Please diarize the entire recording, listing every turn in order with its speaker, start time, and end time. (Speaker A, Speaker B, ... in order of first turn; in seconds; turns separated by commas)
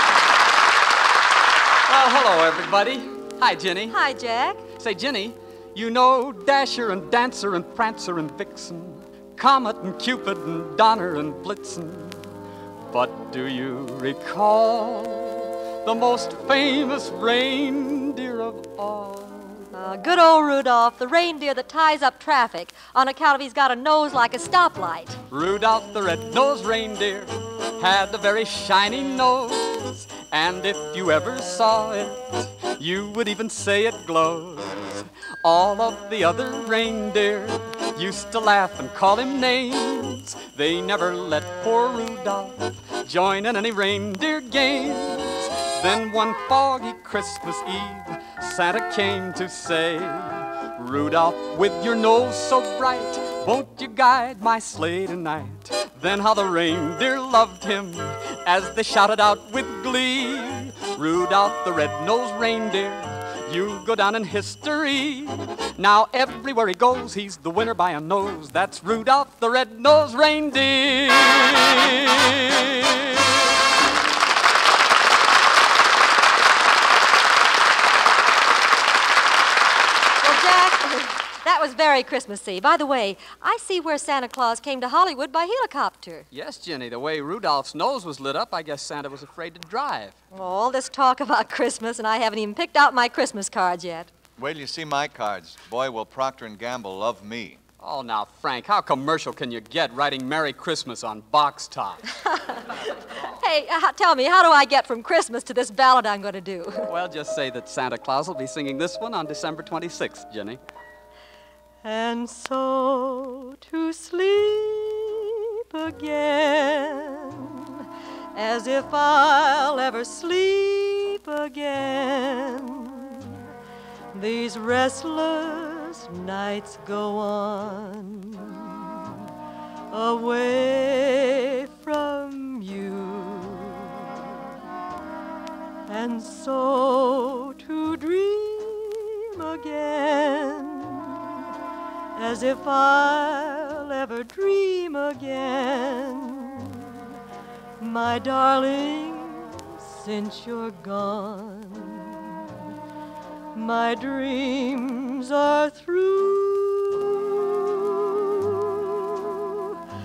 Speaker A: 1.9-4.0, Speaker B: 3.9-4.7, Speaker A: 4.7-12.3, Speaker A: 12.9-19.7, Speaker B: 19.7-25.2, Speaker A: 25.3-73.0, Speaker B: 80.2-86.3, Speaker A: 86.3-90.2, Speaker B: 90.3-94.1, Speaker C: 94.4-97.6, Speaker A: 97.8-102.6, Speaker B: 103.3-106.9, Speaker A: 106.9-110.6, Speaker B: 111.8-117.8, Speaker B: 118.3-123.4, Speaker B: 124.1-129.2, Speaker B: 129.9-134.3, Speaker B: 135.9-141.4, Speaker B: 142.2-147.1, Speaker B: 147.8-152.5, Speaker B: 153.6-159.8